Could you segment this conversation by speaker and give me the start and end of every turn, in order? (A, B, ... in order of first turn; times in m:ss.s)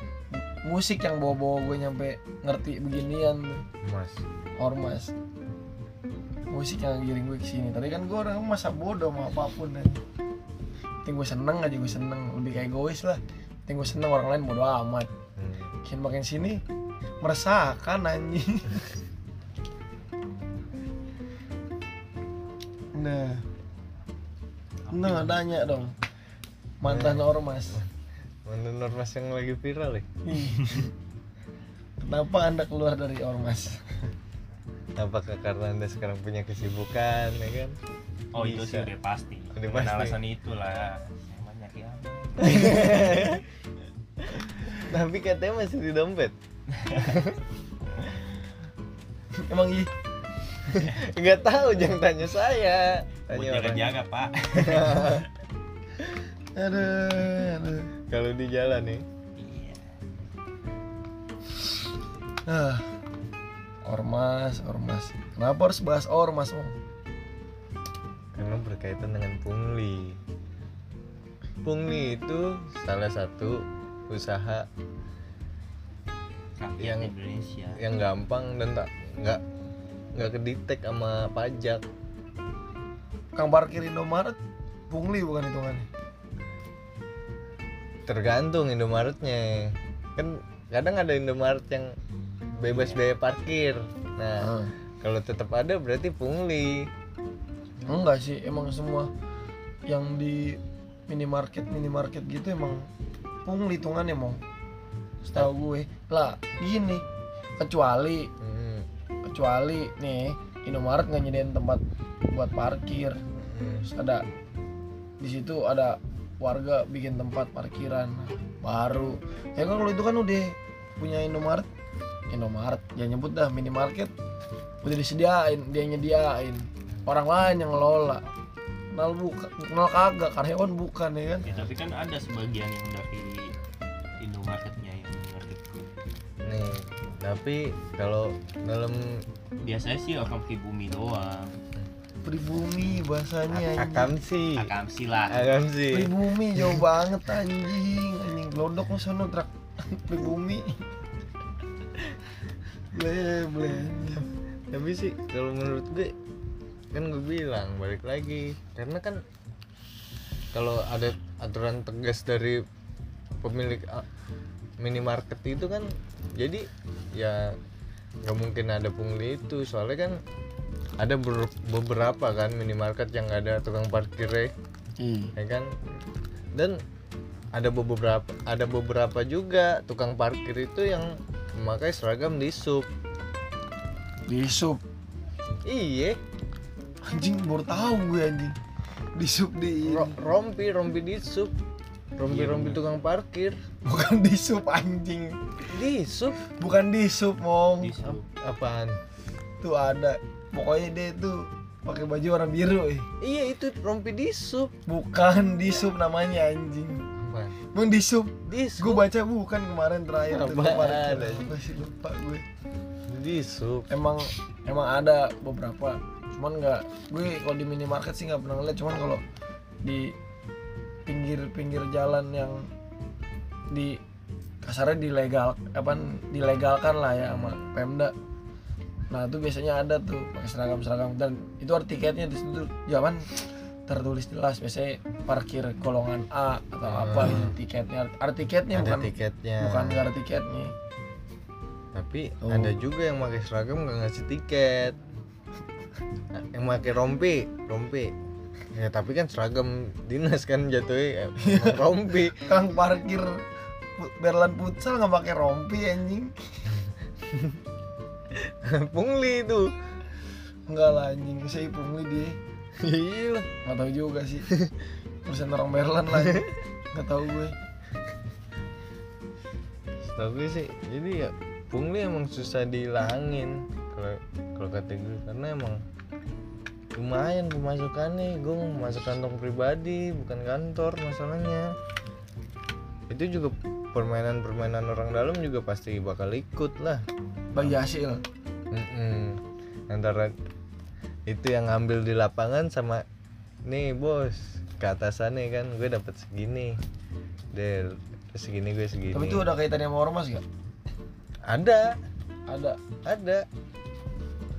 0:00.6-0:03.6 A
0:03.8-0:04.2 B
0:04.6-0:05.1 A
0:06.5-0:10.0 A
0:11.0-0:15.1 A
0:15.4-0:15.7 B
0:15.8-0:16.6 A
0:17.2-0:18.8 A
0:22.9-0:23.4 A
0:24.8-0:25.5 C
0:24.9-0:25.9 A
0:26.8-0:27.8 A
0:26.8-0:27.8 B
0:28.4-0:30.0 B
0:30.2-0:30.9 A
0:32.0-0:33.9 A
0:35.0-0:37.8 B
0:38.3-0:43.3 C
0:38.3-0:38.9 B
0:39.5-0:40.2 B
0:42.4-0:43.4 B
0:44.2-0:46.3 B
0:46.8-0:47.1 C
0:47.1-0:47.4 B
0:49.4-0:49.9 A
0:50.8-0:53.8 B
0:53.3-0:55.2 C
0:54.5-0:55.2 B
0:56.6-0:57.9 A
0:58.1-0:59.0 B
0:59.4-0:59.9 C
1:02.5-1:02.9 A
1:03.8-1:06.8 A
1:08.4-1:10.2 B
1:11.6-1:14.7 B
1:16.6-1:17.8 C
1:16.8-1:17.1 B
1:17.8-1:19.4 B
1:20.1-1:21.8 B
1:23.4-1:24.4 A
1:24.9-1:25.9 A
1:28.1-1:31.9 B
1:32.6-1:36.9 B
1:32.7-1:33.0 C
1:34.4-1:34.7 A
1:37.8-1:39.1 A
1:39.9-1:42.8 A
1:43.4-1:44.4 A
1:45.2-1:47.0 A
1:47.6-1:48.3 A
1:48.4-1:48.9 B
1:49.2-1:53.2 A
1:53.3-1:53.9 B
1:53.9-1:54.2 A
1:55.2-2:01.7 A
2:02.3-2:04.1 A
2:04.8-2:08.2 A
2:08.9-2:11.4 A
2:11.4-2:13.5 C
2:11.4-2:11.7 B
2:14.2-2:15.9 C
2:16.4-2:19.2 B
2:19.6-2:21.5 C
2:22.2-2:24.1 A
2:23.5-2:24.7 B
2:24.6-2:25.6 C
2:25.3-2:26.8 B
2:25.9-2:30.8 A
2:32.9-2:34.3 A
2:34.7-2:36.1 B
2:36.9-2:39.2 B
2:40.5-2:42.6 B
2:43.4-2:44.0 B
2:44.8-2:47.5 B
2:48.2-2:50.2 B
2:51.0-2:54.5 B
2:55.0-2:55.3 A
2:55.4-2:55.7 B
2:57.5-3:02.9 B
3:04.3-3:04.8 A
3:05.6-3:06.2 B
3:07.1-3:08.5 A
3:09.2-3:10.2 A
3:09.9-3:11.5 B
3:12.2-3:13.6 B
3:12.3-3:12.8 C
3:13.8-3:15.5 A
3:15.7-3:16.4 B
3:16.5-3:18.0 A
3:17.8-3:18.2 C
3:18.0-3:19.0 B
3:19.6-3:23.1 A
3:23.2-3:24.7 B
3:24.9-3:27.0 A
3:27.2-3:27.6 B
3:27.7-3:32.4 A
3:28.4-3:29.0 B
3:30.3-3:31.5 B
3:33.1-3:33.9 B
3:33.9-3:39.2 A
3:39.8-3:40.1 A
3:41.0-3:42.7 A
3:43.7-3:44.0 A
3:44.6-3:48.1 A
3:47.2-3:47.7 B
3:49.1-4:00.7 A
3:56.8-3:57.5 B
3:58.7-4:00.0 B
4:01.9-4:05.0 B
4:02.4-4:02.7 A
4:06.3-4:08.1 B
4:08.7-4:12.4 B
4:11.4-4:11.8 A
4:12.4-4:13.4 A
4:14.0-4:16.3 A
4:18.4-4:19.7 B
4:20.7-4:22.4 A
4:22.8-4:23.5 B
4:23.6-4:24.5 A
4:25.2-4:27.5 A
4:30.1-4:35.8 B
4:36.9-4:41.7 B
4:43.1-4:47.0 B
4:47.5-4:48.2 A
4:48.7-4:50.3 B
4:51.3-4:53.0 B
4:53.7-4:56.8 B
4:57.5-4:59.5 B
4:59.1-5:00.4 A
5:01.5-5:01.9 B
5:02.5-5:02.8 A
5:03.0-5:03.4 B